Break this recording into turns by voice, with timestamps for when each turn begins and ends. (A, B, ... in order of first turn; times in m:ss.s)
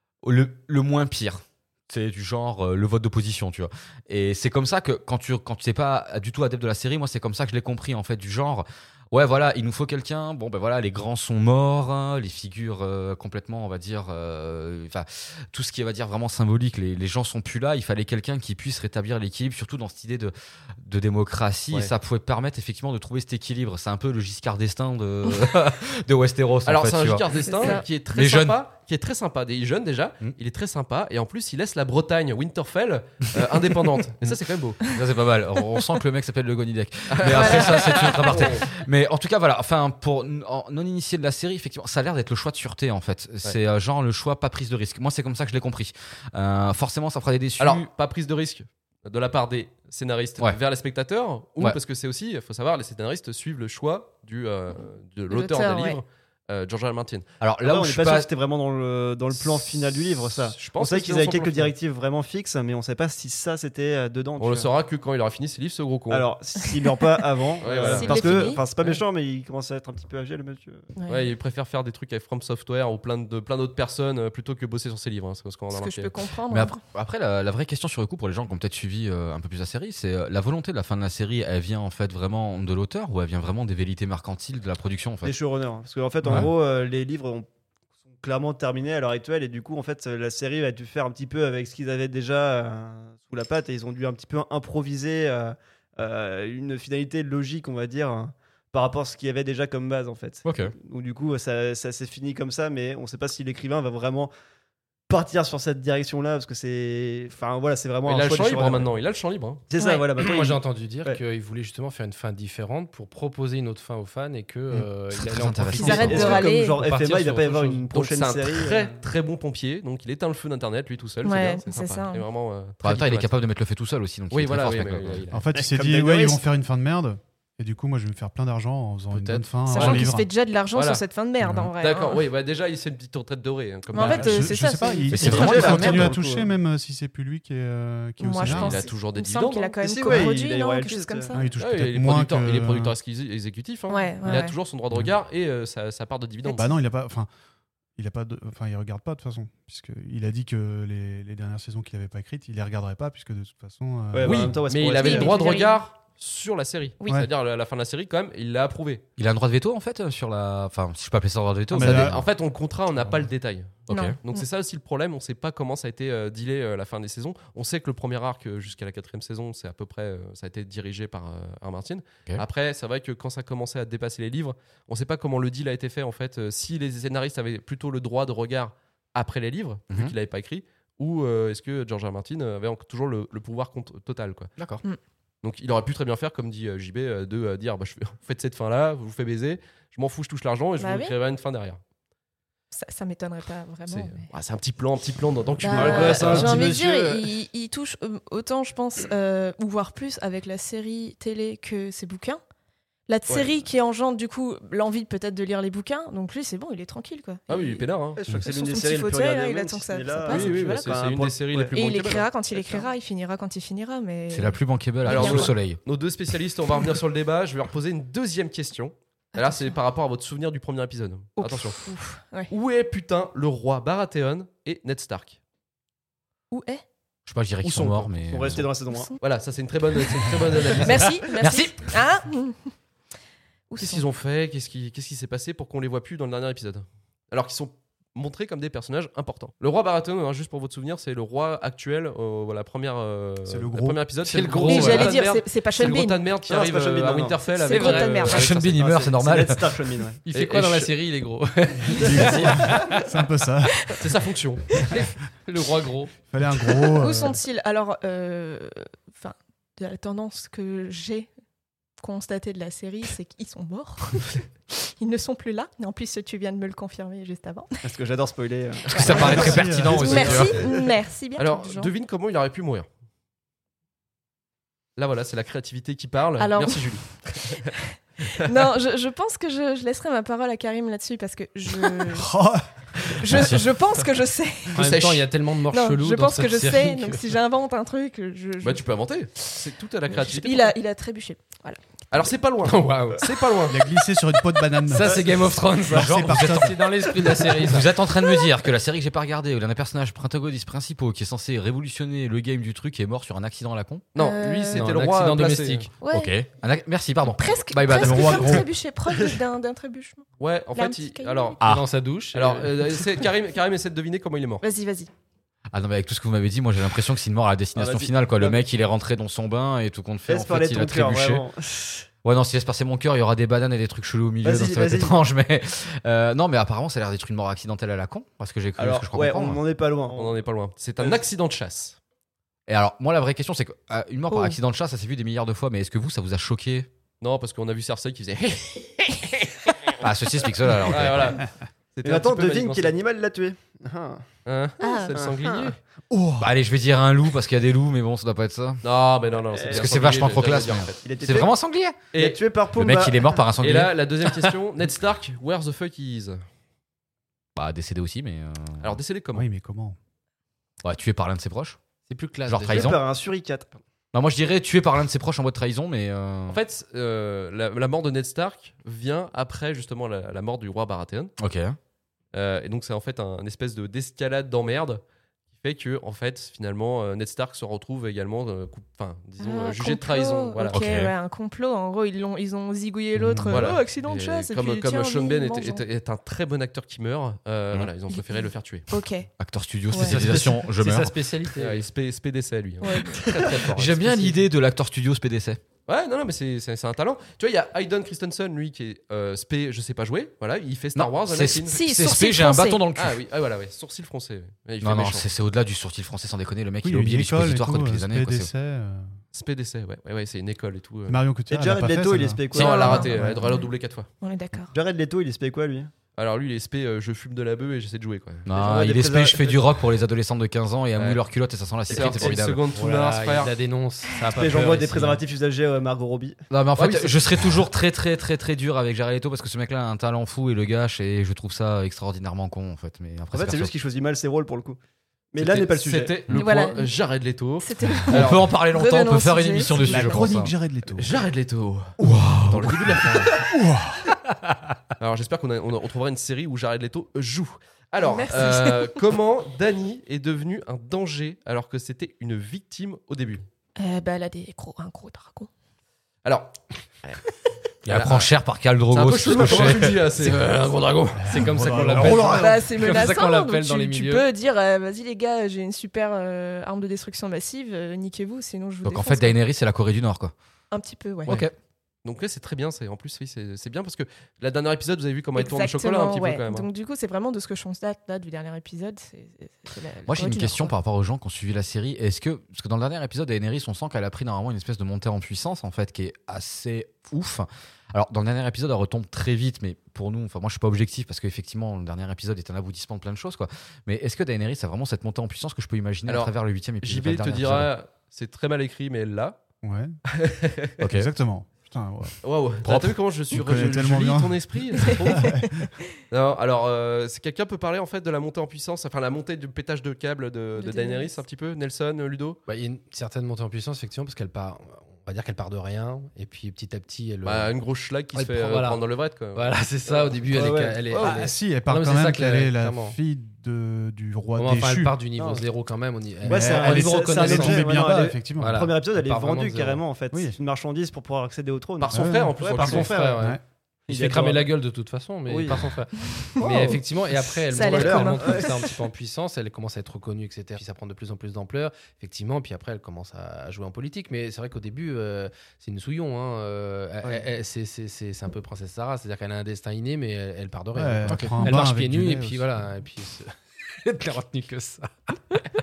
0:00.2-0:28.6 A
0:26.7-0:34.8 B
0:27.5-0:27.8 C
0:34.2-0:47.9 A
0:37.1-0:38.7 B
0:37.3-0:38.1 C
0:47.6-0:57.3 B
0:55.3-0:56.0 C
0:57.4-0:58.3 A
0:57.6-1:04.7 D
1:00.3-1:01.7 B
1:04.4-1:06.3 B
1:06.1-1:10.9 D
1:07.6-1:09.0 B
1:07.9-1:08.6 C
1:11.0-1:11.3 C
1:11.1-1:16.1 B
1:15.7-1:16.8 C
1:16.5-1:25.4 A
1:25.2-1:27.5 D
1:28.2-1:44.3 D
1:40.4-1:40.7 A
1:45.1-1:48.9 D
1:48.0-1:49.6 B
1:49.7-1:51.2 D
1:49.8-1:50.1 C
1:50.2-1:57.9 E
1:54.7-1:56.4 A
1:55.7-1:56.8 C
1:55.9-1:58.9 D
1:57.9-2:03.3 B
2:01.2-2:02.2 C
2:02.8-2:05.2 A
2:04.3-2:05.3 B
2:04.6-2:05.6 E
2:05.3-2:10.3 F
2:05.5-2:06.4 D
2:09.1-2:09.8 E
2:09.7-2:12.2 C
2:09.7-2:10.0 B
2:10.7-2:11.0 B
2:11.4-2:11.7 F
2:11.8-2:14.5 B
2:13.9-2:15.7 C
2:14.0-2:18.8 F
2:15.1-2:15.8 A
2:15.2-2:16.5 D
2:15.4-2:16.1 E
2:18.2-2:21.5 C
2:18.5-2:20.3 B
2:19.8-2:21.4 D
2:21.3-2:23.0 F
2:21.6-2:26.7 B
2:23.9-2:24.6 C
2:26.4-2:26.8 C
2:26.5-2:27.3 F
2:28.0-2:34.6 F
2:34.1-2:35.6 D
2:34.2-2:39.0 B
2:35.0-2:35.8 C
2:39.2-2:42.3 A
2:41.7-2:42.2 F
2:41.8-3:04.5 B
2:43.9-2:44.2 A
2:43.9-2:44.4 C
3:04.6-3:04.8 A
3:05.4-3:11.8 B
3:10.8-3:11.1 C
3:12.7-3:14.3 C
3:13.9-3:16.6 B
3:15.6-3:22.4 C
3:15.7-3:17.3 D
3:23.1-3:30.9 C
3:23.3-3:23.6 B
3:27.5-3:28.2 B
3:28.2-3:31.7 D
3:30.3-3:32.3 B
3:31.7-3:35.5 C
3:34.3-3:35.8 A
3:35.1-3:41.9 B
3:39.3-3:39.8 C
3:41.4-3:42.5 C
3:42.5-3:45.4 B
3:46.5-3:46.8 C
3:47.3-3:48.7 A
3:47.6-3:48.1 B
3:48.1-3:49.1 D
3:48.9-3:49.2 C
3:49.2-3:51.2 B
3:50.8-3:52.8 C
3:51.3-3:52.0 A
3:53.7-3:54.0 C
3:53.8-4:08.8 B
4:03.4-4:04.9 F
4:04.5-4:05.0 E
4:04.6-4:05.1 A
4:04.6-4:06.2 C
4:06.5-4:07.4 D
4:07.4-4:08.5 C
4:07.7-4:09.8 A
4:08.7-4:10.2 D
4:10.3-4:13.0 E
4:10.3-4:10.9 B
4:12.0-4:13.9 F
4:14.0-4:14.7 B
4:14.8-4:16.3 E
4:16.3-4:17.4 F
4:16.8-4:21.3 C
4:22.0-4:24.4 C
4:25.0-4:27.8 C
4:27.8-4:29.7 D
4:28.9-4:31.9 C
4:28.9-4:30.6 A
4:29.0-4:30.6 F
4:31.4-4:32.9 B
4:35.0-4:37.7 B
4:36.4-4:37.7 C
4:38.3-4:42.3 C
4:42.0-4:43.5 F
4:43.1-4:44.8 C
4:44.8-4:45.3 B
4:44.8-4:47.3 E
4:45.7-4:48.8 C
4:48.6-4:50.8 B
4:50.1-4:52.3 C
4:52.1-4:53.8 B
4:52.6-4:53.3 E
4:53.7-4:55.2 F
4:54.7-4:57.9 E
4:55.9-4:56.8 F
4:55.9-4:56.8 A
4:57.5-5:04.0 A
5:04.1-5:05.9 B
5:04.2-5:04.8 C
5:04.7-5:05.9 E
5:06.0-5:06.3 C
5:06.1-5:08.7 A
5:07.2-5:11.6 C
5:08.1-5:08.6 F
5:10.4-5:11.7 B
5:11.6-5:11.9 A
5:11.6-5:13.0 E
5:12.3-5:14.6 B
5:14.6-5:15.1 C
5:15.7-5:21.5 A
5:17.8-5:18.6 D
5:20.3-5:22.1 D
5:22.2-5:29.6 A
5:24.4-5:25.2 D
5:28.8-5:30.4 D
5:30.1-5:32.0 B
5:32.7-5:36.9 A
5:34.3-5:34.6 C
5:37.2-5:39.9 B
5:40.0-5:41.4 A
5:40.9-5:43.0 B
5:42.0-5:44.2 D
5:44.5-5:45.8 B
5:44.8-5:45.1 C
5:45.2-5:45.7 D
5:46.1-5:46.5 F
5:46.4-5:48.8 A
5:48.8-5:51.0 B
5:49.5-5:50.2 D
5:49.7-5:52.0 A
5:51.0-5:51.5 D
5:52.1-5:52.4 B
5:52.1-5:53.5 D
5:52.7-5:54.5 A
5:53.6-5:56.4 B
5:57.6-5:59.0 A
5:58.8-5:59.5 B
5:59.3-6:00.0 F
6:00.8-6:01.8 A
6:02.1-6:03.0 E
6:02.5-6:03.0 A
6:02.7-6:03.8 D
6:04.1-6:06.6 A
6:06.5-6:11.3 B
6:11.4-6:11.8 A
6:12.3-6:15.0 B
6:15.6-6:20.8 B
6:19.4-6:25.8 C
6:20.7-6:21.1 A
6:23.2-6:23.6 F
6:23.5-6:28.9 B
6:28.1-6:29.3 C
6:29.4-6:31.2 A
6:29.9-6:30.2 C
6:29.9-6:31.9 E
6:31.6-6:34.3 B
6:32.8-6:33.4 C
6:33.5-6:34.1 E
6:33.7-6:35.6 A
6:35.9-6:41.8 B
6:41.0-6:43.2 A
6:41.7-6:42.8 C
6:43.0-6:45.3 B
6:44.8-6:48.5 A
6:46.8-6:49.2 F
6:49.3-6:51.2 B
6:51.1-6:52.4 F
6:51.5-6:53.5 D
6:52.5-6:54.1 B
6:52.6-6:53.7 C
6:54.2-6:54.7 C
6:54.7-6:55.9 D
6:56.2-6:58.5 B
6:58.5-7:02.6 A
6:58.5-6:59.6 D
7:01.9-7:03.5 B
7:01.9-7:05.2 E
7:04.4-7:06.4 D
7:06.5-7:13.7 A
7:06.8-7:07.2 B
7:13.3-7:14.8 D
7:15.3-7:16.2 D
7:15.4-7:18.4 B
7:16.3-7:16.9 C
7:17.6-7:20.3 C
7:18.1-7:20.5 A
7:19.8-7:21.2 F
7:21.0-7:22.0 B
7:22.0-7:23.3 A
7:22.5-7:23.5 B
7:22.5-7:24.1 F
7:25.0-7:33.4 B
7:28.0-7:29.0 C
7:33.8-7:35.5 C
7:36.2-7:37.2 B
7:37.9-7:38.3 B
7:37.9-7:40.3 A
7:38.9-7:40.8 B
7:39.4-7:44.3 E
7:41.2-7:42.8 F
7:42.3-7:49.4 C
7:48.8-7:50.3 A
7:50.7-7:51.4 C
7:51.3-7:51.5 A
7:52.0-7:56.7 B
7:55.4-8:00.7 C
8:00.1-8:17.7 A
8:16.1-8:19.4 B
8:19.6-8:20.0 F
8:20.1-8:20.8 B
8:20.8-8:21.1 A
8:20.8-8:22.2 F
8:22.2-8:25.3 B
8:22.6-8:22.9 A
8:23.3-8:25.7 F
8:26.1-8:32.4 B
8:30.6-8:31.2 C
8:32.5-8:37.5 E
8:37.2-8:40.0 B
8:38.1-8:43.0 E
8:40.3-8:41.3 D
8:41.0-8:45.0 F
8:44.4-8:47.8 E
8:45.2-8:45.5 D
8:46.2-8:48.6 F
8:46.3-8:53.3 D
8:48.4-8:49.9 E
8:50.1-8:50.4 F
8:51.8-8:52.9 B
8:51.9-8:53.4 F
8:52.6-9:15.4 E
8:53.9-8:54.5 D
8:55.3-8:56.8 D
8:56.2-8:56.8 C
8:57.5-8:58.5 C
8:57.6-8:58.6 D
9:10.8-9:12.6 F